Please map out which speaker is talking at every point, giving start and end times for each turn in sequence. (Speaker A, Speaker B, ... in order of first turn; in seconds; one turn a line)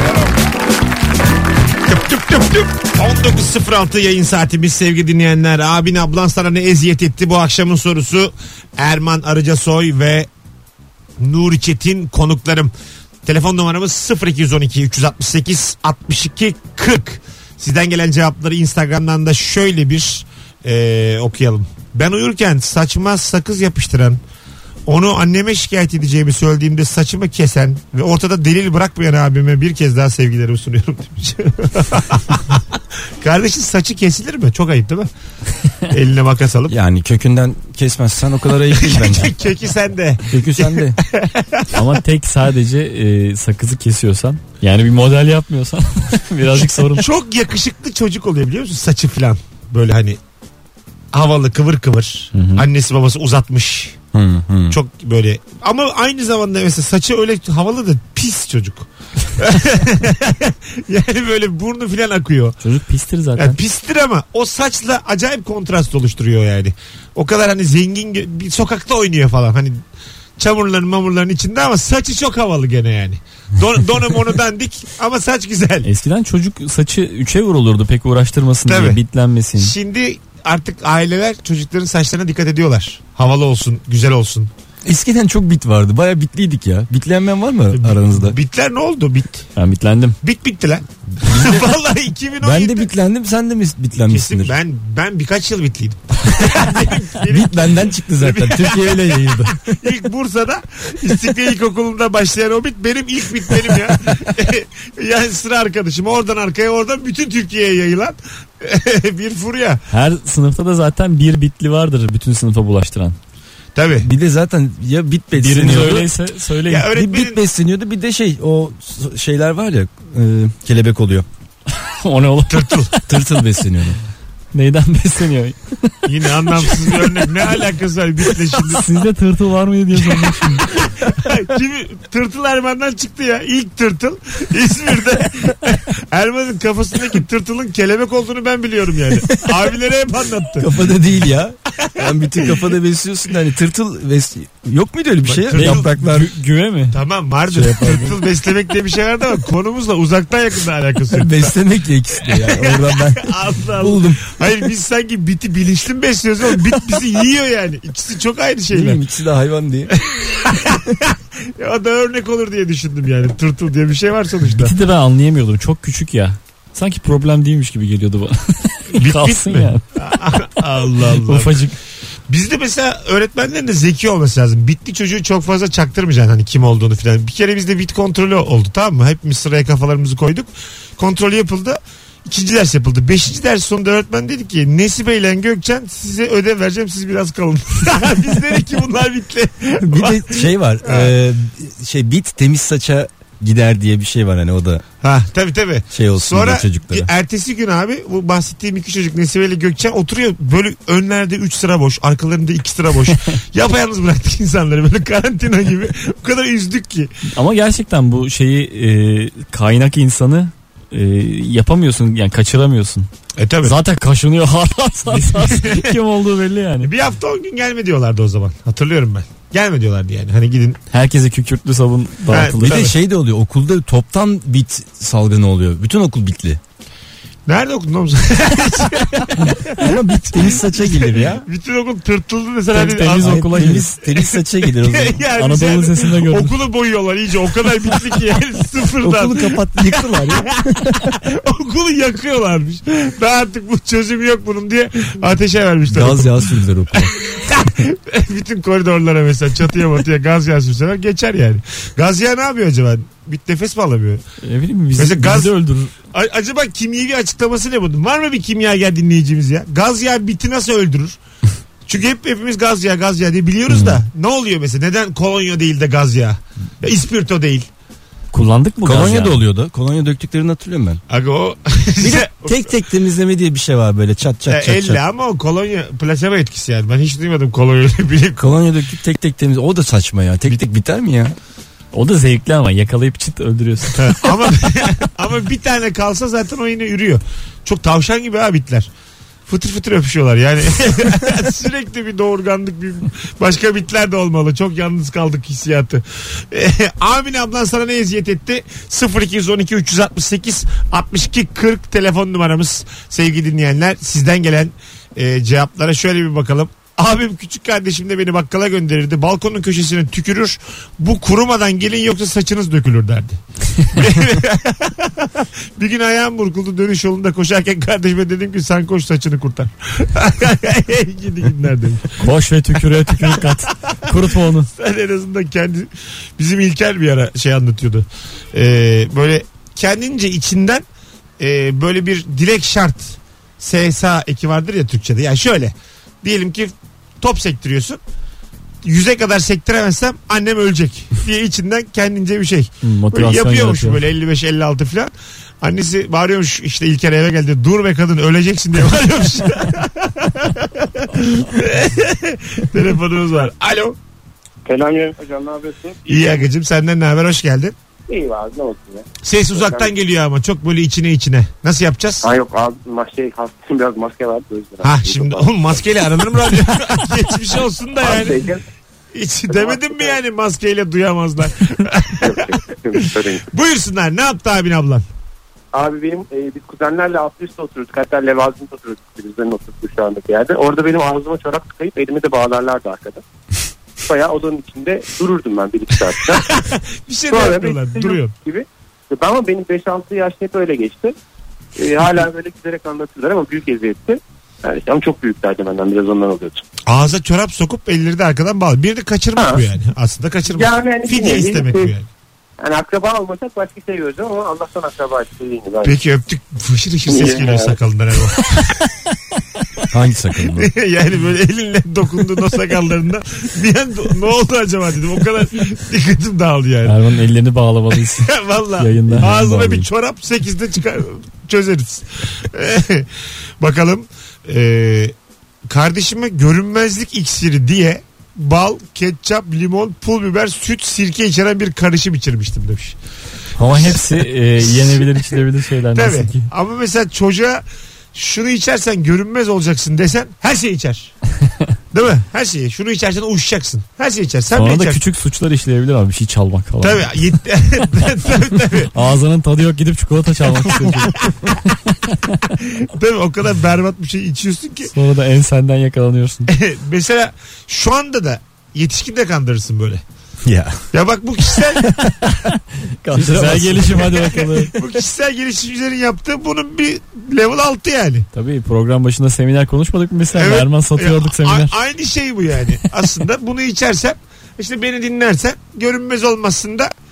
Speaker A: 1.8-10.3
Speaker A: 11.2-12.7
Speaker A: 13.2-24.2
Speaker A: 24.9-35.1
Speaker A: 35.9-36.8
Speaker B: 36.7-39.3
Speaker A: 38.7-41.8
Speaker B: 40.3-41.0
Speaker C: 41.7-47.1
Speaker A: 46.5-50.2
Speaker A: 51.1-54.0
Speaker C: 52.3-52.7
Speaker B: 54.1-54.8
Speaker A: 54.7-62.6
Speaker C: 62.6-63.6
Speaker A: 63.4-69.8
Speaker A: 70.4-75.9
Speaker C: 75.8-79.7
Speaker A: 78.7-79.0
Speaker A: 79.6-84.5
Speaker B: 84.8-88.4
Speaker A: 87.7-89.5
Speaker C: 89.6-90.2
Speaker A: 90.2-92.9
Speaker B: 91.2-91.7
Speaker B: 92.4-94.5
Speaker A: 94.0-109.8
Speaker B: 97.3-99.6
Speaker C: 109.9-113.2
Speaker A: 113.8-114.1
Speaker B: 114.0-116.1
Speaker C: 115.3-116.9
Speaker A: 116.7-117.4
Speaker B: 116.9-121.3
Speaker C: 121.8-123.2
Speaker A: 122.5-122.9
Speaker B: 123.1-124.0
Speaker C: 124.5-127.3
Speaker A: 126.0-129.0
Speaker C: 128.6-130.7
Speaker A: 130.0-140.7
Speaker B: 140.6-146.3
Speaker A: 141.8-142.6
Speaker A: 145.2-145.9
Speaker C: 145.5-147.0
Speaker A: 146.9-151.5
Speaker B: 147.5-148.2
Speaker B: 151.1-154.4
Speaker A: 152.3-159.0
Speaker B: 158.7-159.9
Speaker A: 159.9-164.8
Speaker C: 164.5-170.5
Speaker A: 168.9-171.6
Speaker C: 171.2-171.8
Speaker A: 172.3-191.1
Speaker B: 189.8-194.8
Speaker A: 195.0-207.1
Speaker B: 195.9-197.1
Speaker C: 207.3-213.1
Speaker A: 213.4-213.8
Speaker C: 213.6-216.9
Speaker A: 215.2-216.0
Speaker A: 216.8-220.8
Speaker C: 220.9-222.9
Speaker A: 222.3-222.9
Speaker B: 222.6-226.6
Speaker A: 227.5-240.4
Speaker B: 229.4-231.4
Speaker C: 232.7-233.9
Speaker B: 233.2-235.2
Speaker C: 235.4-236.6
Speaker B: 239.0-241.2
Speaker A: 241.0-254.2
Speaker B: 245.9-247.2
Speaker C: 254.4-255.9
Speaker A: 254.9-255.5
Speaker A: 256.1-261.2
Speaker A: 261.9-267.7
Speaker C: 268.3-269.4
Speaker B: 268.8-271.0
Speaker A: 271.1-272.8
Speaker B: 272.0-275.0
Speaker A: 274.5-278.6
Speaker B: 278.4-281.4
Speaker C: 281.9-284.6
Speaker A: 283.9-288.9
Speaker A: 289.5-322.2
Speaker C: 322.2-324.7
Speaker A: 322.9-330.9
Speaker A: 331.4-338.0
Speaker A: 338.8-354.0
Speaker C: 342.8-344.0
Speaker D: 354.6-356.5
Speaker A: 356.1-357.8
Speaker D: 358.1-359.9
Speaker A: 359.2-362.3
Speaker D: 362.2-365.9
Speaker A: 364.8-368.5
Speaker D: 368.0-368.6
Speaker A: 369.1-373.0
Speaker D: 369.5-370.2
Speaker D: 372.2-373.5
Speaker A: 373.5-375.1
Speaker D: 375.7-383.2
Speaker D: 384.0-386.6
Speaker A: 386.3-388.3
Speaker D: 387.3-391.1
Speaker D: 391.8-396.6
Speaker A: 396.9-402.1
Speaker D: 399.4-399.6
Speaker D: 400.5-401.9
Speaker D: 402.6-406.0
Speaker A: 405.8-408.9
Speaker D: 407.1-407.8
Speaker B: 409.9-410.7
Speaker A: 410.5-417.0
Speaker C: 416.9-419.3
Speaker A: 418.2-425.2
Speaker B: 419.1-419.9
Speaker A: 425.7-433.0
Speaker C: 433.6-436.5
Speaker A: 433.7-435.4
Speaker A: 435.9-441.1
Speaker A: 441.9-445.0
Speaker C: 444.6-447.2
Speaker A: 446.8-448.9
Speaker C: 448.9-452.4
Speaker A: 451.0-451.3
Speaker A: 452.6-454.9
Speaker C: 454.9-456.5
Speaker A: 456.5-460.0
Speaker B: 460.5-460.8
Speaker A: 460.9-462.1
Speaker B: 461.6-464.1
Speaker C: 463.1-464.8
Speaker A: 464.1-468.3
Speaker C: 468.3-471.8
Speaker A: 470.3-476.9